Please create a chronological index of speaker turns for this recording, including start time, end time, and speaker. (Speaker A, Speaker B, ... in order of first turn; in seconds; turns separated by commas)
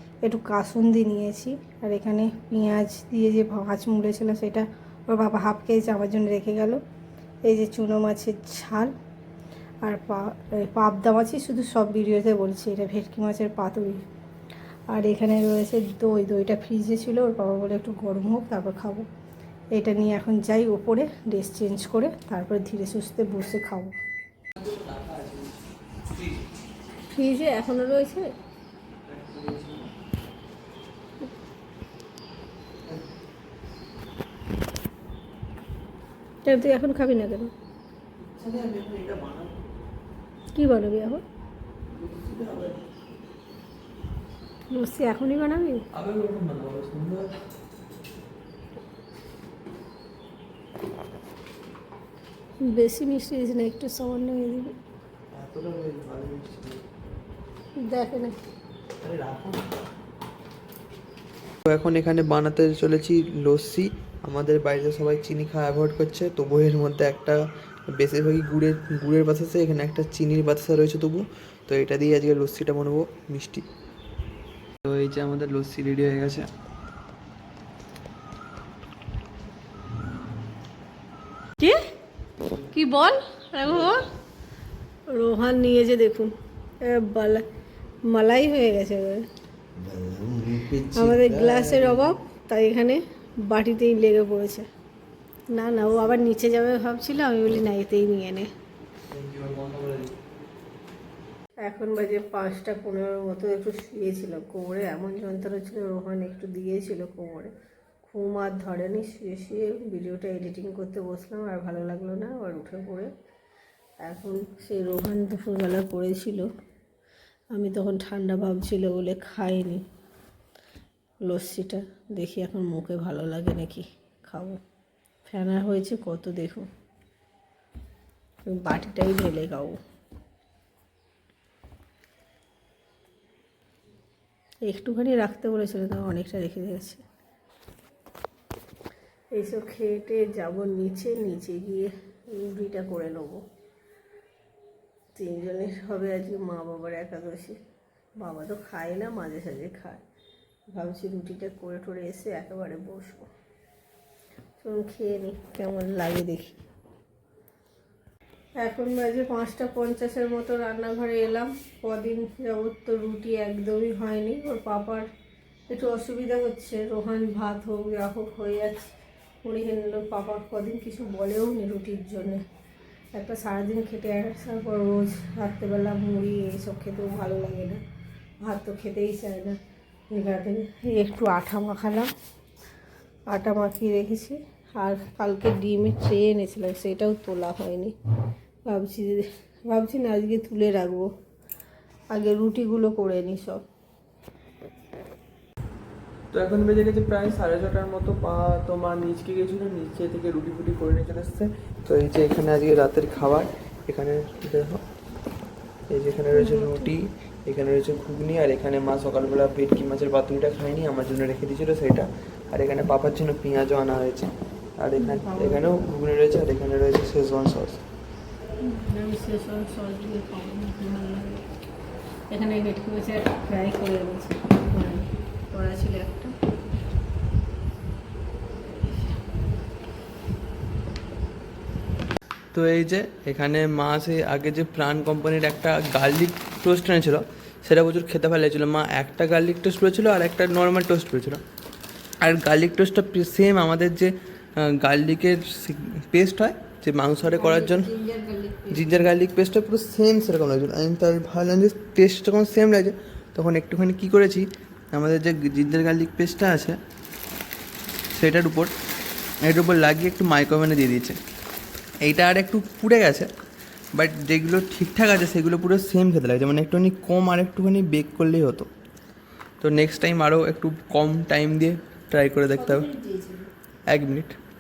Speaker A: 0.2-6.8, Speaker A: 7.5-8.9, Speaker A: 9.8-14.0, Speaker A: 14.9-19.1, Speaker A: 19.7-23.9, Speaker B: 24.6-26.4, Speaker A: 27.1-28.3, Speaker B: 29.1-29.9, Speaker A: 36.5-37.5, Speaker B: 38.2-39.6, Speaker A: 40.5-41.2, Speaker B: 41.9-42.9, Speaker A: 44.7-45.9, Speaker B: 45.9-47.3, Speaker A: 52.6-54.7, Speaker B: 55.3-56.8, Speaker A: 57.9-58.4, Speaker B: 59.0-59.7, Speaker B: 61.7-73.7, Speaker B: 74.8-76.5, Speaker A: 82.7-84.1, Speaker A: 85.1-87.5, Speaker A: 88.1-89.3, Speaker B: 89.8-92.2, Speaker A: 90.9-94.7, Speaker A: 95.5-98.5, Speaker B: 99.1-100.2, Speaker A: 101.6-113.1, Speaker A: 114.0-116.5, Speaker A: 117.5-119.8, Speaker A: 121.2-124.6, Speaker A: 125.3-126.7, Speaker A: 128.5-129.8, Speaker A: 134.7-137.0, Speaker A: 139.3-143.4, Speaker A: 145.1-147.6, Speaker A: 148.2-150.0, Speaker A: 150.7-153.3, Speaker A: 154.6-156.6, Speaker A: 158.6-165.1, Speaker A: 165.7-168.9, Speaker A: 169.4-172.4, Speaker A: 173.1-177.8, Speaker A: 178.4-179.6, Speaker A: 180.1-182.1, Speaker A: 183.3-187.9, Speaker A: 188.7-191.1, Speaker A: 192.1-193.6, Speaker B: 196.3-204.8, Speaker B: 205.9-217.8, Speaker A: 206.3-206.9, Speaker A: 215.0-215.7, Speaker A: 218.6-221.4, Speaker A: 222.3-226.3, Speaker B: 232.5-241.4, Speaker B: 242.2-247.9, Speaker A: 247.3-249.1, Speaker B: 248.7-256.8, Speaker B: 258.1-258.7, Speaker B: 259.4-261.2, Speaker B: 262.0-263.3, Speaker B: 263.9-268.7, Speaker B: 269.6-272.9, Speaker A: 272.5-273.5, Speaker B: 273.9-274.4